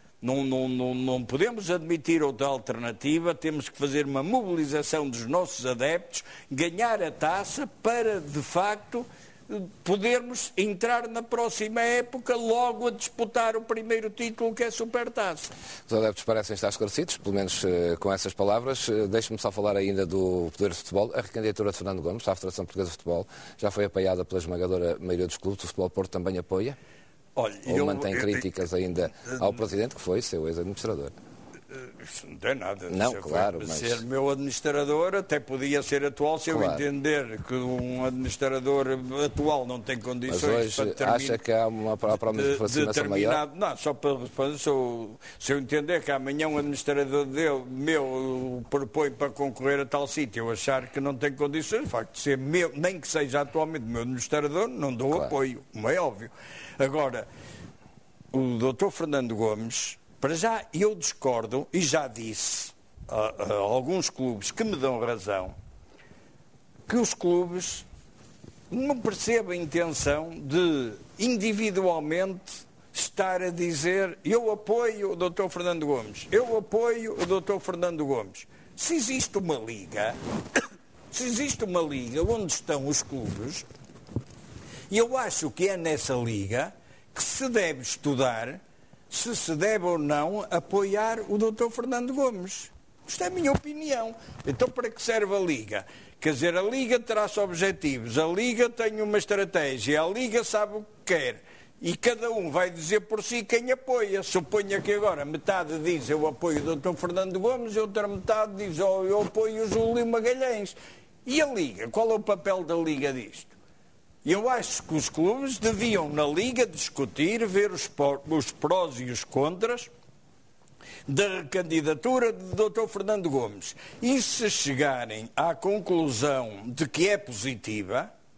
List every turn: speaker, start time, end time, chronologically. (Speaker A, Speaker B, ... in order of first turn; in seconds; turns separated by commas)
Speaker A: 0.2-15.5, Speaker B: 15.9-26.8, Speaker A: 27.4-28.5, Speaker B: 27.6-31.1, Speaker A: 31.7-41.4, Speaker B: 32.9-34.0, Speaker B: 36.5-36.8, Speaker B: 40.3-43.4, Speaker A: 42.3-57.2, Speaker A: 58.3-65.5, Speaker A: 66.9-67.8, Speaker A: 68.7-83.7, Speaker A: 84.9-88.6, Speaker A: 89.1-113.5, Speaker A: 114.2-119.9, Speaker A: 121.1-128.1